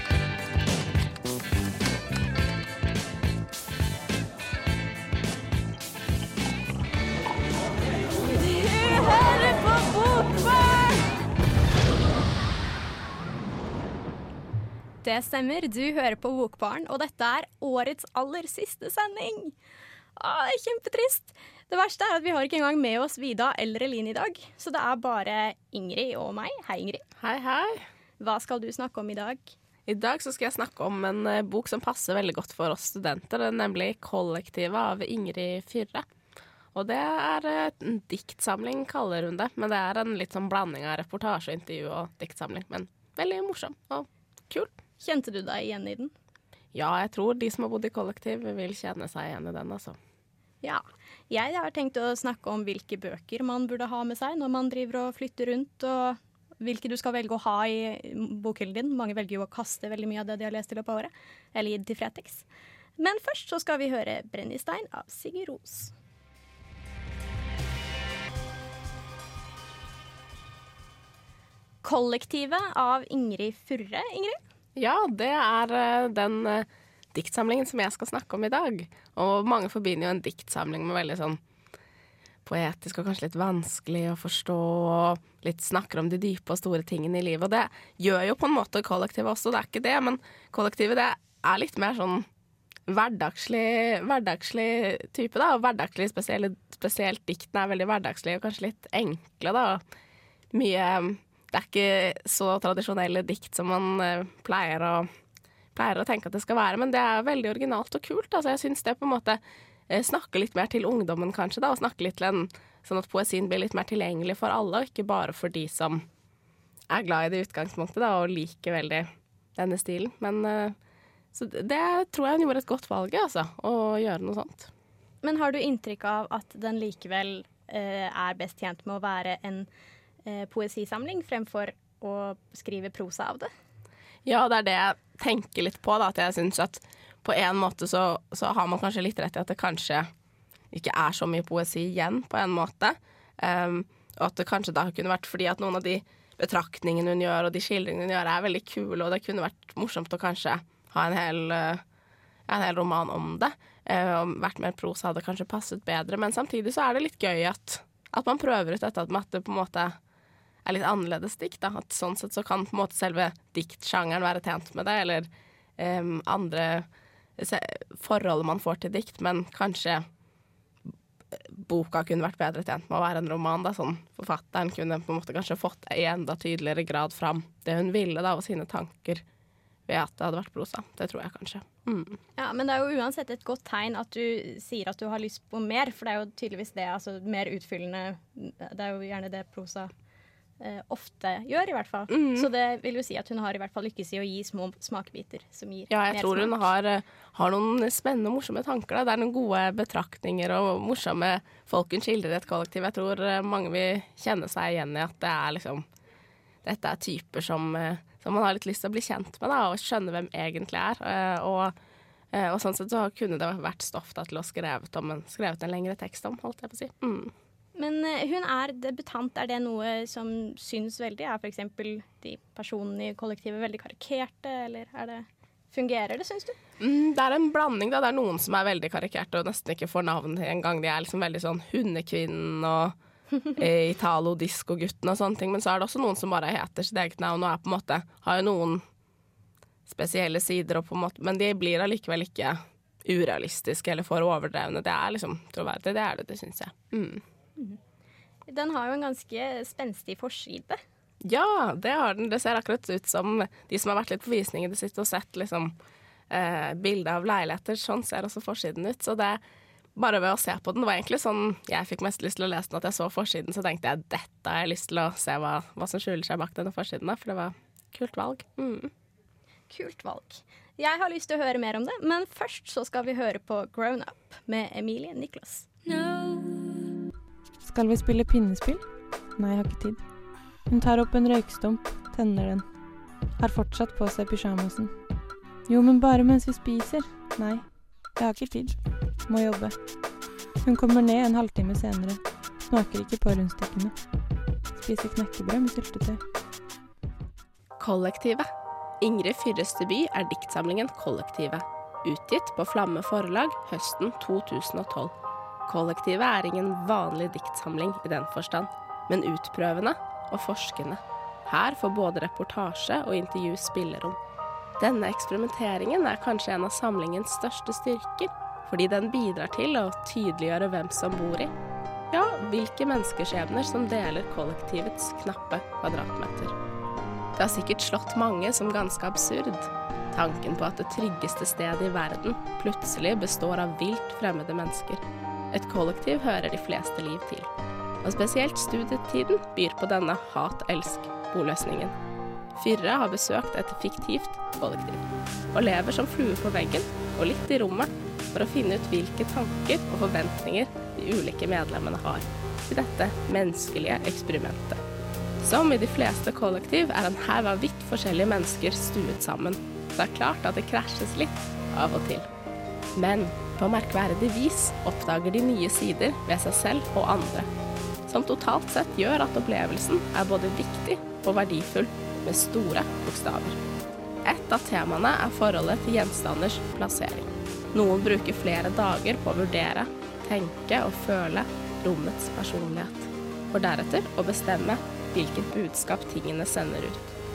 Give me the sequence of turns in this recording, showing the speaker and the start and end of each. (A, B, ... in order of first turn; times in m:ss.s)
0:08.4-0:11.0 A
0:15.0-0:19.5 A
0:20.2-0:27.0 A
0:27.2-0:27.8 B
0:28.2-0:29.5 A
0:29.8-0:36.0 B
0:36.7-0:44.7 B
0:45.0-0:46.1 A
0:46.7-0:50.0 B
0:50.6-1:02.4 A
1:03.0-1:05.9 A
1:11.8-1:14.4 A
1:14.8-1:21.4 B
1:22.4-1:32.2 B
1:32.9-1:39.8 B
1:40.5-1:45.1 B
1:45.7-1:56.0 B
1:56.9-2:00.8 B
2:01.3-2:04.7 B
2:05.2-2:09.7 A
2:10.2-2:13.5 A
2:14.2-2:20.1 B
2:20.7-2:31.8 B
2:32.5-2:40.0 B
2:40.6-2:50.0 B
2:51.3-2:59.2 B
2:59.9-3:02.2 B
3:02.4-3:09.9 A
3:10.6-3:16.6 A
3:12.1-3:12.5 B
3:15.9-3:25.8 B
3:26.6-3:31.7 B
3:32.3-3:37.3 B
3:37.7-3:46.6 A
3:46.8-3:52.9 B
3:53.6-3:58.8 B
3:59.9-4:07.2 B
4:08.5-4:10.8 A
4:11.2-4:15.7 B
4:16.3-4:19.4 B
4:20.0-4:28.9 B
4:29.7-4:36.6 A
4:37.6-4:42.8 C
4:43.4-4:50.0 C
4:50.6-4:54.1 C
4:54.7-4:56.2 C
4:57.8-4:58.4 B
4:59.0-5:05.1 B
5:05.7-5:14.2 B
5:14.8-5:21.5 B
5:22.1-5:26.5 B
5:27.4-5:37.5 B
5:38.0-5:41.9 B
5:42.6-5:54.8 B
5:55.4-6:02.3 B
6:02.9-6:07.5 B
6:08.1-6:13.6 B
6:14.2-6:27.1 B